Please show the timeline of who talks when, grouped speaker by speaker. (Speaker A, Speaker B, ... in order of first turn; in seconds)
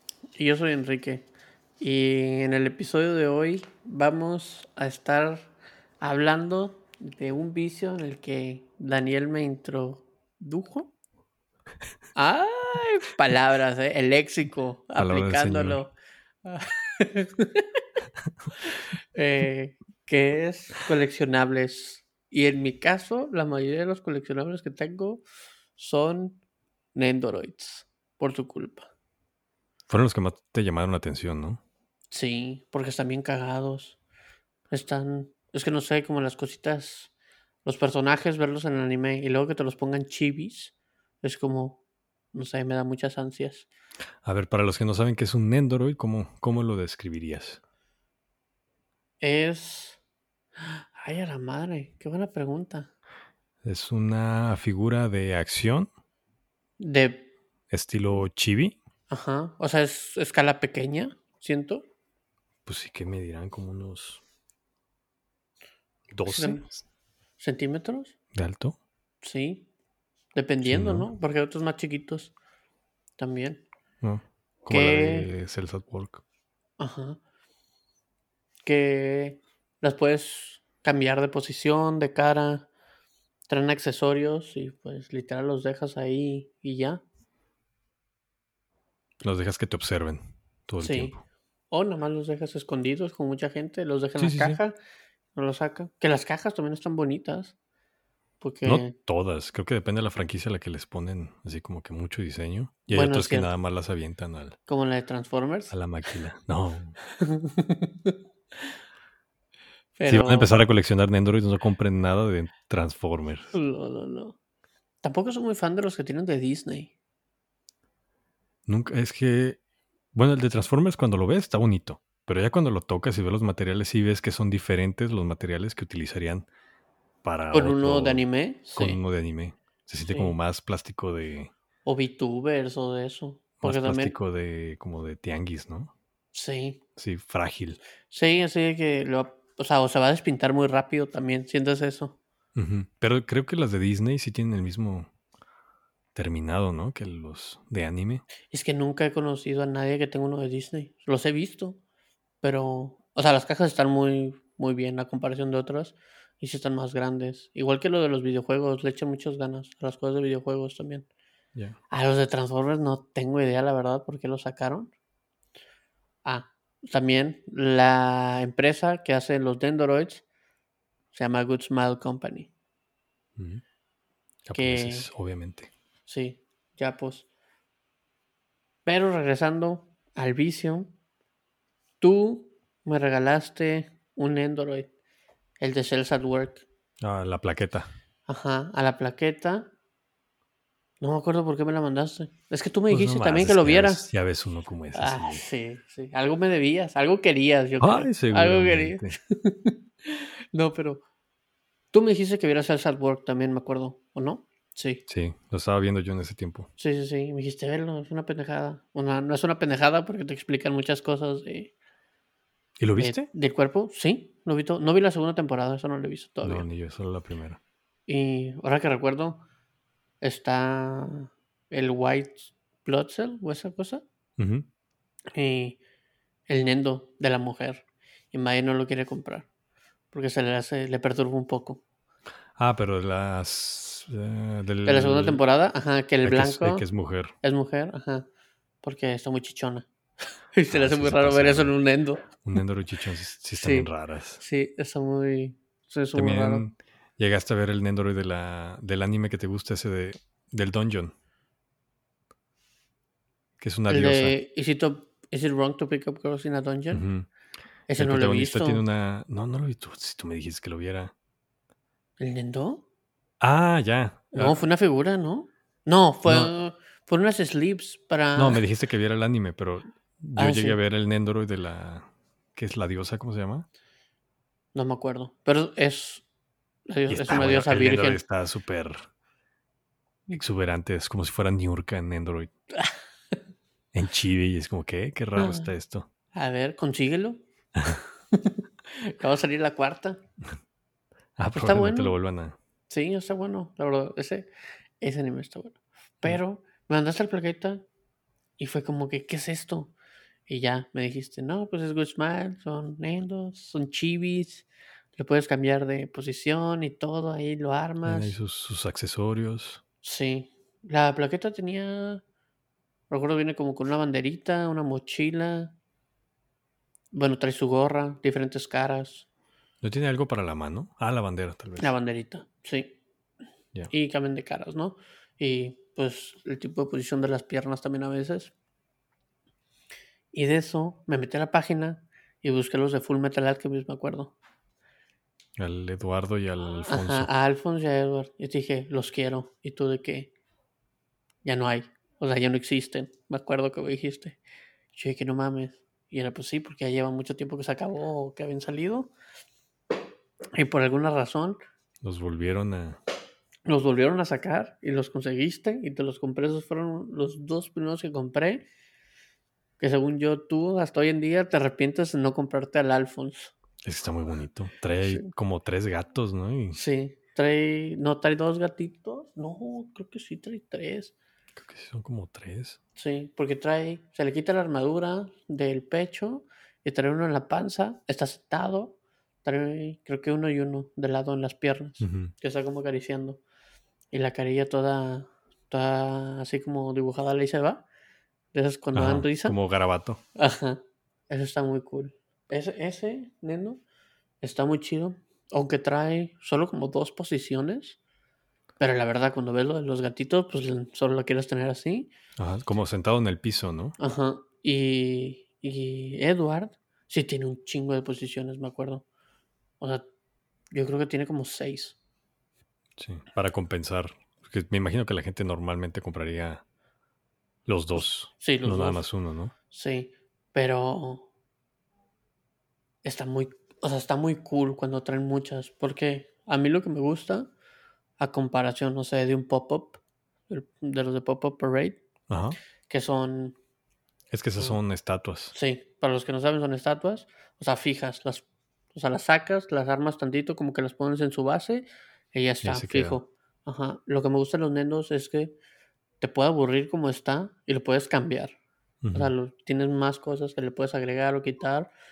Speaker A: 0.3-1.3, 1.8-5.5, 6.0-10.9, 12.1-15.9, 16.4-17.7, 18.6-25.2, 25.8-26.4, 26.9-28.9, 32.1-34.0, 34.7-37.1, 37.6-41.8, 42.3-43.7, 49.2-50.0, 50.6-52.9, 56.8-57.3, 59.1-61.9, 66.2-66.7, 67.4-68.1, 69.2-69.7, 70.3-72.3, 73.2-73.7, 74.7-75.3, 76.8-77.2, 78.6-82.7, 83.5-87.0, 90.8-91.2, 91.7-94.8, 95.3-97.5, 98.4-98.9, 102.9-103.5, 104.7-105.7, 107.0-108.2, 110.0-110.5, 113.5-114.3, 115.0-116.9, 127.5-129.0, 130.1-130.3, 131.8-134.2, 136.3-136.8, 138.1-142.2, 148.5-151.8, 152.4-161.1, 161.9-164.9, 166.2-170.2, 171.1-172.5, 174.5-175.1, 176.1-177.3, 178.8-180.9, 182.0-184.9, 185.6-186.6, 188.3-189.7, 191.0-194.1, 194.9-201.0, 201.9-205.0, 206.8-211.7, 213.0-216.7, 218.1-219.4, 220.2-224.0, 225.3-225.8, 226.5-229.5, 230.1-231.8, 234.8-236.8, 237.4-238.3, 238.8-239.9, 240.5-242.4, 243.5-246.7, 253.9-257.1, 257.9-258.8, 262.2-262.8, 264.3-268.6, 270.4-270.8, 274.7-276.2, 276.9-278.2, 285.4-285.7, 286.3-290.2, 291.5-292.1, 292.9-294.5, 295.0-297.8, 298.6-299.9, 300.5-308.3, 310.0-312.2, 313.1-315.7, 317.1-319.3, 321.8-322.9, 323.9-328.5, 330.3-334.3, 336.9-340.3, 341.4-344.4, 344.9-349.1, 350.5-351.6, 353.6-358.6, 359.8-363.5, 365.0-365.3, 366.7-371.1, 372.9-383.4, 384.1-387.8, 388.5-389.6, 390.4-393.8, 394.4-398.0, 398.8-402.1, 404.0-409.0, 410.7-412.0, 418.0-419.1, 419.7-421.3, 423.0-427.5, 428.2-432.0, 432.9-433.6, 435.5-445.6, 446.2-448.6, 449.1-451.9
Speaker B: 14.9-15.8, 29.9-31.6, 44.2-47.6, 53.6-55.9, 57.7-58.8, 62.6-64.2, 66.1-66.7, 68.3-68.8, 70.6-71.1, 74.0-76.2, 89.2-91.2, 94.2-94.6, 98.6-104.6, 105.7-107.0, 110.0-113.5, 118.7-119.6, 120.1-126.5, 127.2-128.2, 128.7-131.5, 133.6-135.9, 137.0-137.8, 142.5-145.1, 146.1-148.2, 173.4-173.6, 174.4-175.7, 187.0-187.9, 192.9-195.4, 197.8-199.2, 205.1-206.7, 212.8-213.3, 216.4-217.6, 224.4-224.7, 232.6-235.4, 236.2-237.3, 240.7-241.7, 242.4-244.4, 246.1-251.1, 253.6-254.4, 256.9-257.3, 257.9-261.1, 263.4-264.6, 266.2-266.5, 268.4-273.7, 277.1-279.1, 280.3-282.5, 283.9-286.1, 291.4-292.6, 308.0-309.8, 319.8-321.9, 335.6-337.3, 352.0-353.0, 363.8-366.8, 371.5-372.8, 382.0-382.3, 388.9-390.2, 402.4-403.9, 413.0-416.6, 417.6-419.5, 432.3-432.6, 434.3-435.5, 442.6-443.2, 449.0-449.3